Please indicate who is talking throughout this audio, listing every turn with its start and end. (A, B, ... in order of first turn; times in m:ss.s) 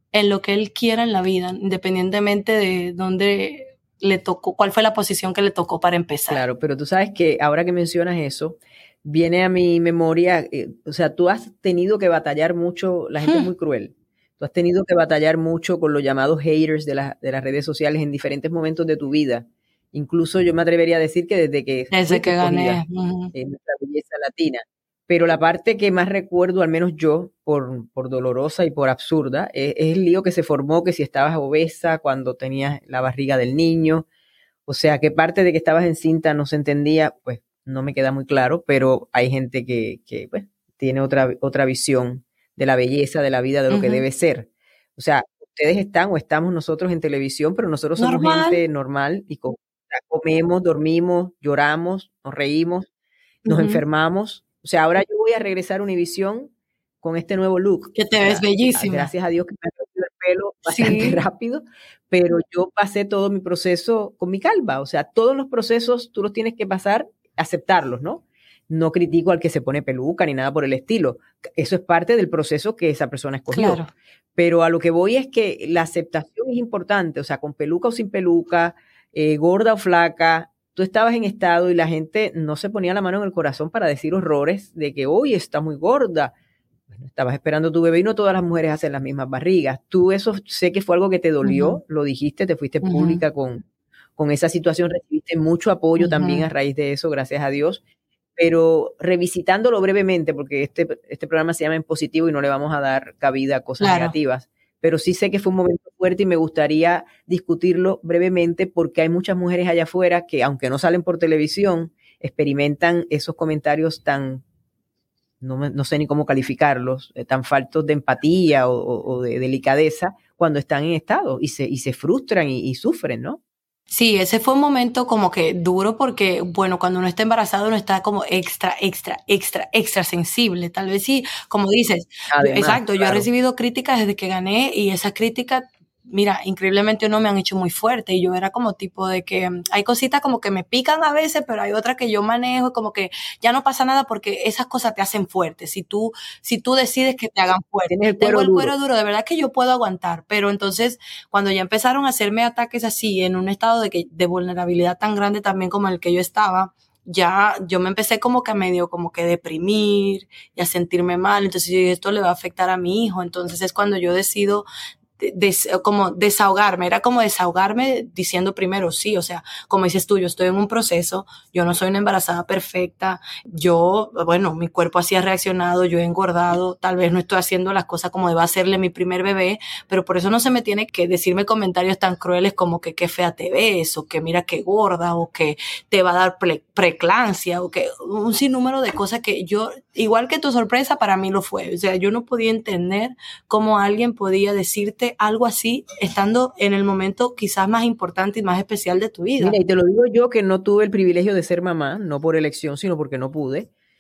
0:00.1-0:06.4 A
0:06.3-0:22.8 B
0:21.9-0:23.3 A
0:23.3-0:34.1 B
0:34.7-0:52.9 B
0:43.7-0:44.0 A
0:48.0-0:48.6 A
0:53.5-0:53.8 A
0:53.5-0:56.5 B
0:57.0-1:26.3 B
0:58.0-0:59.1 A
1:00.7-1:01.2 A
1:13.5-1:13.9 A
1:26.9-1:33.6 B
1:31.4-1:31.8 A
1:32.8-1:33.2 A
1:34.2-1:37.8 B
1:36.0-1:36.5 A
1:38.4-1:54.4 B
1:43.8-1:44.1 A
1:55.4-2:03.4 B
2:03.9-2:44.7 A
2:12.3-2:13.3 B
2:27.9-2:28.7 B
2:45.2-3:19.6 A
3:19.4-3:23.7 B